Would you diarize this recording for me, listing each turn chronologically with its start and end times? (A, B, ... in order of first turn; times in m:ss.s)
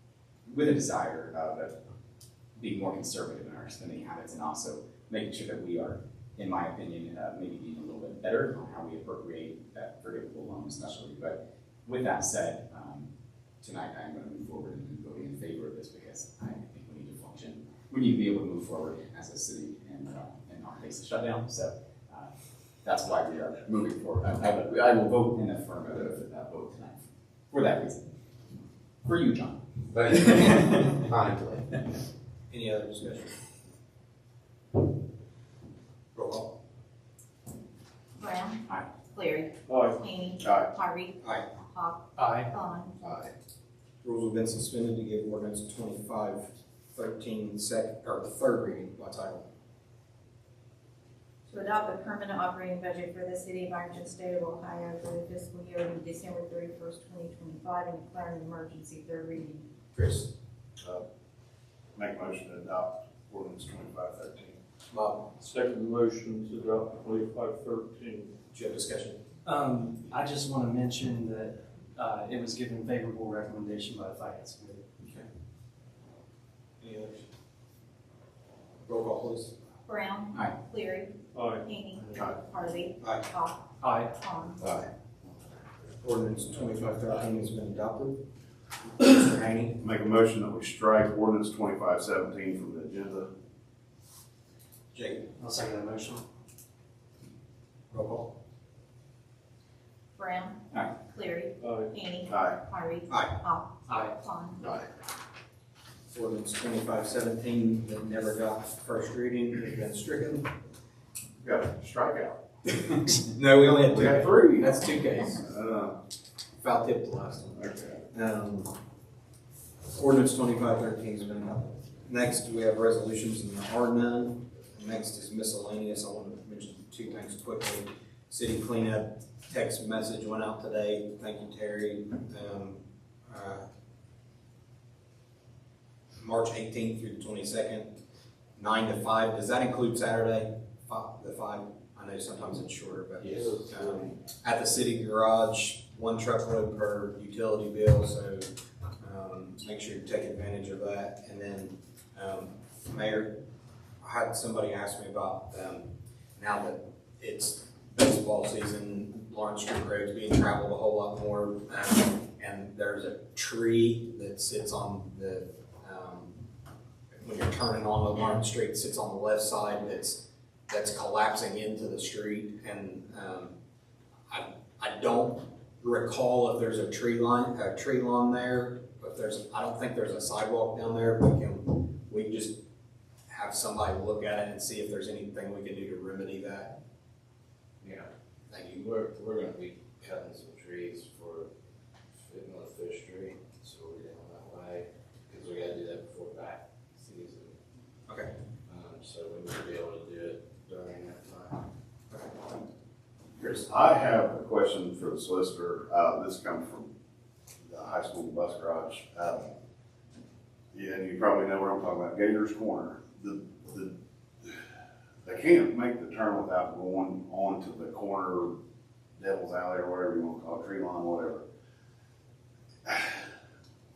0:00.5-0:01.8 A
0:02.6-0:13.1 A
0:13.6-0:22.3 A
0:22.8-0:27.0 A
0:27.5-0:28.1 A
0:29.0-0:31.0 A
0:31.1-0:31.6 B
0:32.5-0:33.4 C
0:36.2-0:36.5 C
0:38.2-0:42.9 D
0:39.7-0:39.9 E
0:40.4-0:40.7 F
0:42.2-0:42.5 G
0:44.0-0:49.5 C
0:51.5-0:59.6 D
0:59.9-1:00.3 C
1:02.0-1:04.6 F
1:04.9-1:05.3 C
1:05.4-1:08.3 E
1:08.5-1:09.2 C
1:09.4-1:14.9 G
1:16.8-1:17.3 C
1:18.9-1:19.5 C
1:19.9-1:24.6 D
1:23.8-1:24.1 G
1:26.0-1:28.2 C
1:29.0-1:29.8 C
1:29.8-1:33.3 F
1:34.9-1:35.3 C
1:35.4-1:36.2 G
1:37.9-1:38.3 C
1:40.2-1:44.6 D
1:42.3-1:42.6 F
1:43.1-1:43.4 C
1:46.1-1:50.5 C
1:51.4-1:52.4 F
1:53.3-1:55.4 C
1:53.9-1:54.8 F
1:55.4-1:56.0 F
1:56.6-1:58.7 C
1:57.6-1:58.0 F
1:59.9-2:13.6 C
2:16.2-2:17.9 C
2:18.6-2:28.5 C
2:23.2-2:24.1 B
2:29.0-2:33.4 C
2:34.0-2:46.4 C
2:47.2-2:53.5 C
2:54.3-3:02.5 C
3:03.3-3:06.8 C
3:07.8-3:11.5 B
3:12.2-3:17.6 B
3:18.7-3:21.6 B
3:23.4-3:26.9 F
3:27.7-3:29.5 F
3:30.7-3:34.6 F
3:35.2-3:38.6 F
3:39.2-3:41.4 F
3:42.9-3:43.3 F